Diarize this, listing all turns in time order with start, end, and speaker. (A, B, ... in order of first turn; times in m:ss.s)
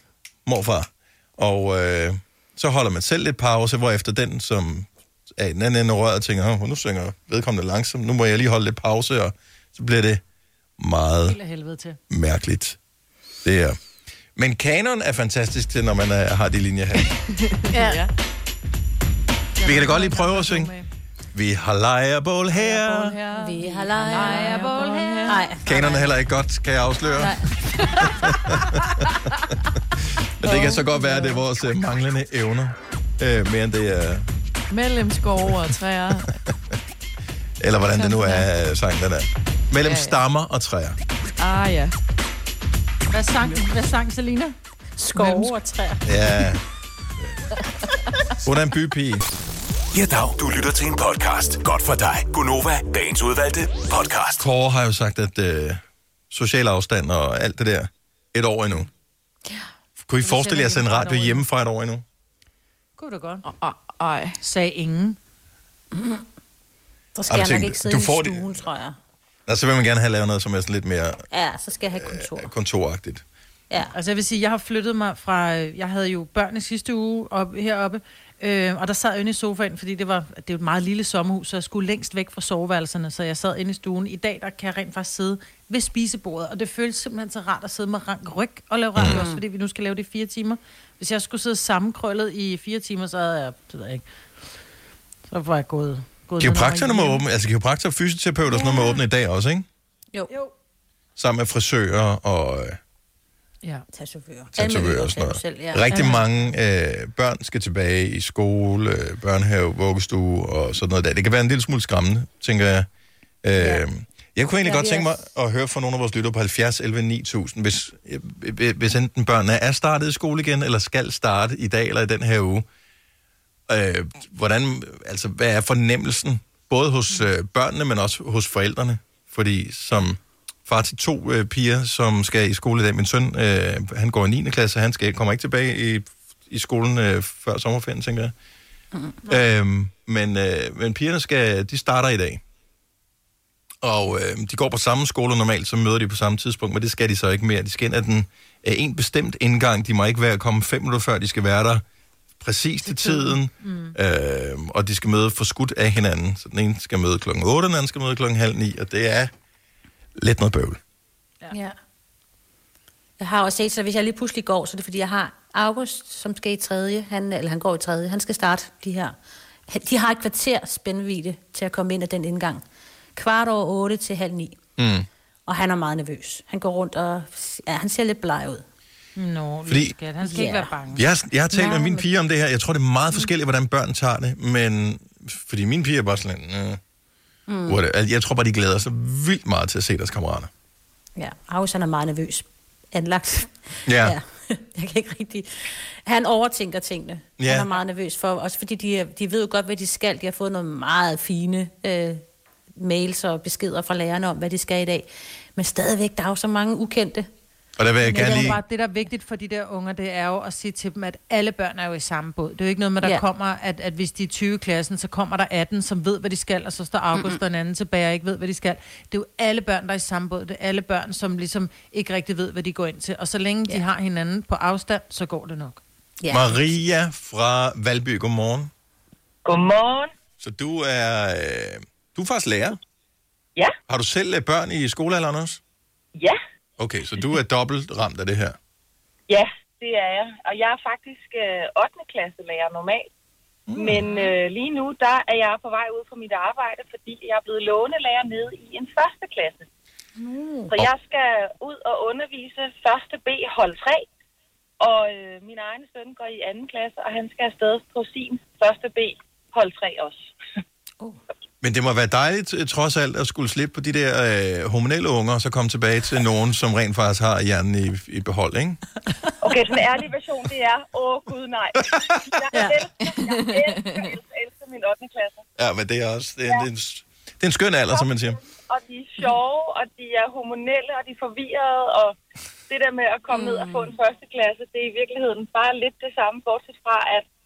0:00.4-0:10.2 A
0:10.8-0:11.4 A
0:11.2-0:12.0 B
0:12.1-0:12.8 A
0:13.4-0:13.8 A
0:14.4-0:17.1 A
0:17.4-0:18.1 C
0:17.7-0:18.0 D
0:19.6-0:20.8 B
0:19.6-0:20.7 A
0:21.3-0:23.2 A
0:22.6-0:25.5 C
0:23.3-0:26.0 D
0:24.1-0:25.4 B
0:25.6-0:27.4 A
0:28.0-0:28.8 A
0:30.4-0:34.3 A
0:30.4-0:31.4 C
0:34.7-0:36.4 C
0:37.6-0:41.0 A
0:37.9-0:38.5 C
0:39.8-0:40.2 C
0:41.4-0:41.9 C
0:43.1-0:44.6 B
0:45.0-0:46.5 D
0:45.1-0:45.5 B
0:46.0-0:46.6 A
0:48.4-0:49.2 A
0:49.9-0:54.4 E
0:54.4-0:58.9 A
1:00.0-1:02.0 A
1:00.2-1:01.4 B
1:03.0-1:03.4 B
1:03.4-1:04.4 C
1:04.4-1:05.2 B
1:05.9-1:06.2 D
1:07.1-1:09.0 D
1:07.3-1:08.5 A
1:09.5-1:11.2 A
1:11.3-1:12.5 D
1:11.9-1:13.2 A
1:13.9-1:34.0 B
1:29.0-1:29.2 A
1:29.0-1:29.4 D
1:35.3-1:37.2 B
1:36.4-1:39.7 A
1:38.5-1:39.0 D
1:41.2-1:42.8 A
1:43.9-1:46.2 D
1:44.5-1:52.9 A
1:53.4-2:02.6 A
1:53.6-1:53.8 D
1:54.6-1:55.2 D
2:03.7-2:18.3 A
2:18.9-2:19.2 D
2:19.2-2:22.4 A
2:23.8-2:31.8 A
2:32.4-2:39.3 A
2:32.8-2:34.0 B
2:40.2-2:40.8 A
2:41.5-2:41.8 D
2:43.2-2:49.1 D
2:49.7-2:52.6 D
2:53.2-2:54.6 D
2:54.8-2:55.1 A
2:55.4-2:58.6 D
2:59.2-3:01.0 B
2:59.7-2:59.9 A
3:00.2-3:00.7 D
3:00.9-3:06.8 A
3:01.5-3:02.1 D
3:07.5-3:07.8 D
3:07.7-3:10.5 A
3:11.2-3:22.2 D
3:13.8-3:14.1 A
3:17.4-3:17.7 A
3:22.8-3:27.3 D
3:27.8-3:28.6 A
3:28.0-3:45.8 B
3:28.1-3:28.6 D
3:37.1-3:37.4 D
3:46.2-3:46.6 D
3:46.3-3:48.7 A
3:49.4-3:50.1 F
3:50.4-3:52.8 A
3:53.9-3:55.6 A
3:56.8-3:58.6 A
3:59.3-4:03.1 F
4:03.7-4:04.0 A
4:03.8-4:09.7 F
4:10.7-4:14.1 F
4:14.8-4:20.3 F
4:21.6-4:28.8 A
4:29.4-4:35.4 F
4:33.0-4:34.1 C
4:35.6-4:38.4 A
4:37.9-4:42.2 F
4:42.7-4:47.2 F
4:43.3-4:43.9 D